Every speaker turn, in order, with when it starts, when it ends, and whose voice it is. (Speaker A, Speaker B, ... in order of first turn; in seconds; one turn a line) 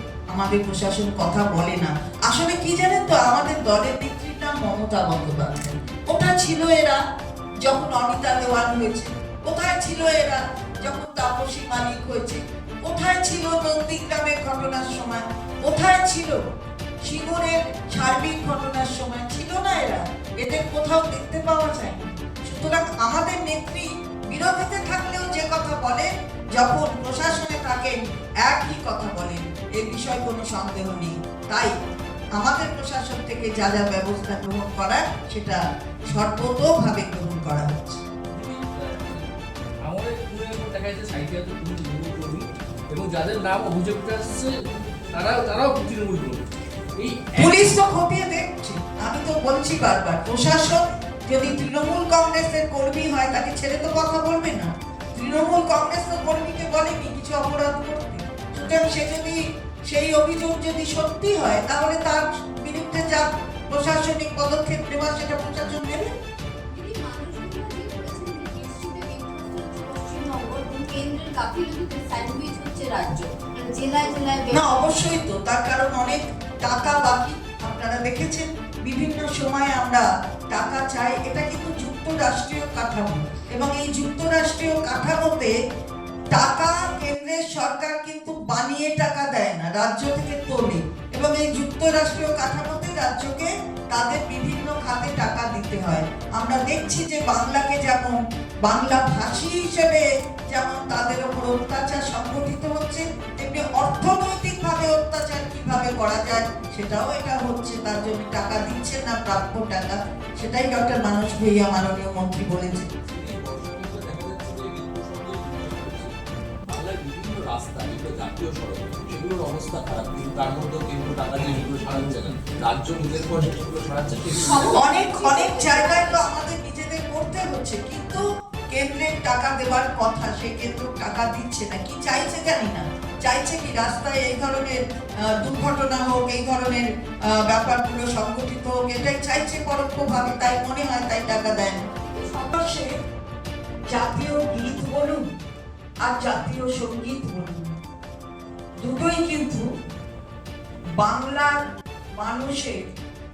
Speaker A: 0.3-7.0
Speaker A: 7.6-16.4
Speaker A: 17.0-31.7
Speaker A: 32.3-38.0
Speaker B: 38.3-46.5
Speaker B: 47.0-47.7
Speaker A: 47.4-66.1
Speaker C: 66.7-74.8
Speaker A: 74.5-85.5
Speaker A: 86.3-112.9
Speaker D: 113.1-124.8
Speaker C: 124.4-126.2
Speaker A: 124.7-141.8
Speaker C: 141.9-142.5
Speaker A: 142.5-142.9
Speaker A: 143.9-145.2
Speaker A: 146.0-147.7
Speaker A: 148.8-149.7
Speaker A: 151.0-151.6
Speaker A: 152.2-152.9